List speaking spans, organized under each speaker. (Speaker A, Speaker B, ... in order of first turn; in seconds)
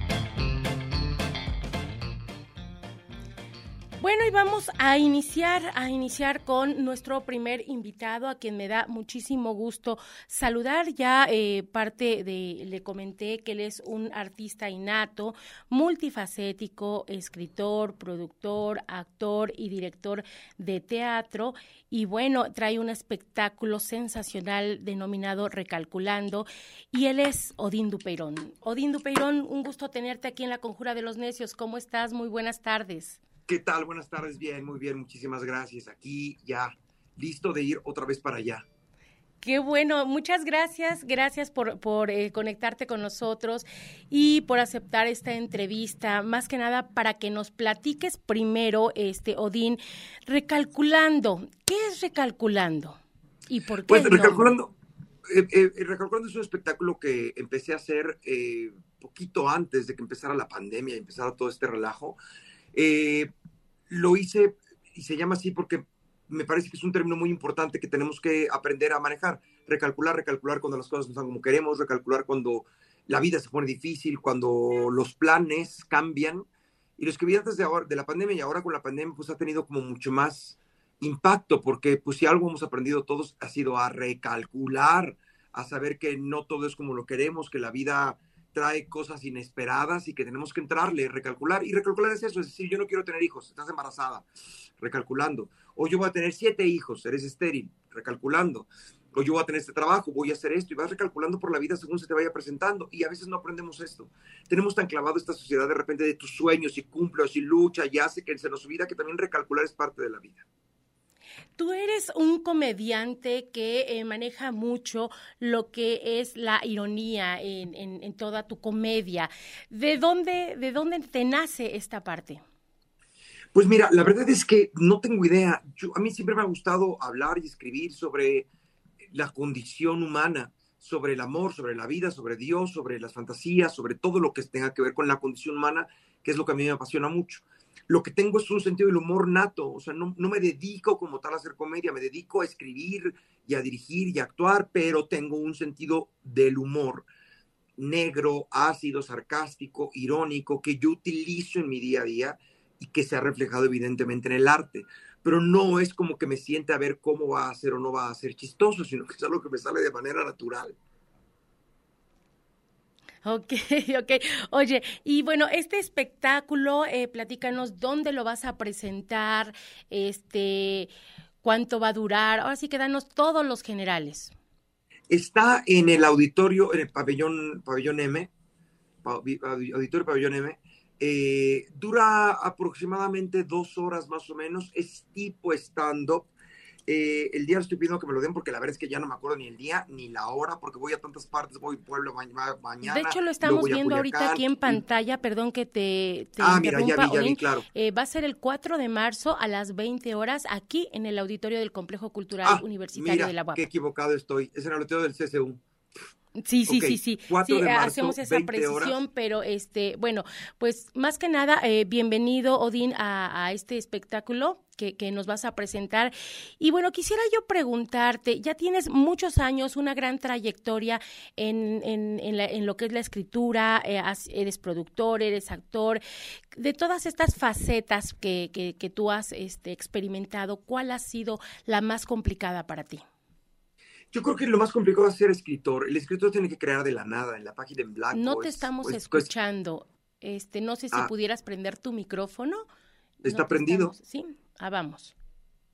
Speaker A: 4.0-33.2, 39.4-54.6, 111.5-122.4, 163.2-170.9, 171.4-174.3, 192.8-203.7, 206.4-226.0, 226.5-233.0, 238.1-242.6, 243.2-245.2
Speaker B: 33.5-38.6, 53.9-54.7, 55.3-62.2, 62.7-63.3, 63.9-76.5, 77.0-94.3, 94.8-110.4, 123.5-128.4, 129.1-147.1, 147.8-160.8, 175.1-178.3, 179.0-186.3, 186.9-194.8, 196.4-197.6, 202.4-205.6, 206.7-209.0, 234.1-239.3, 243.2-243.9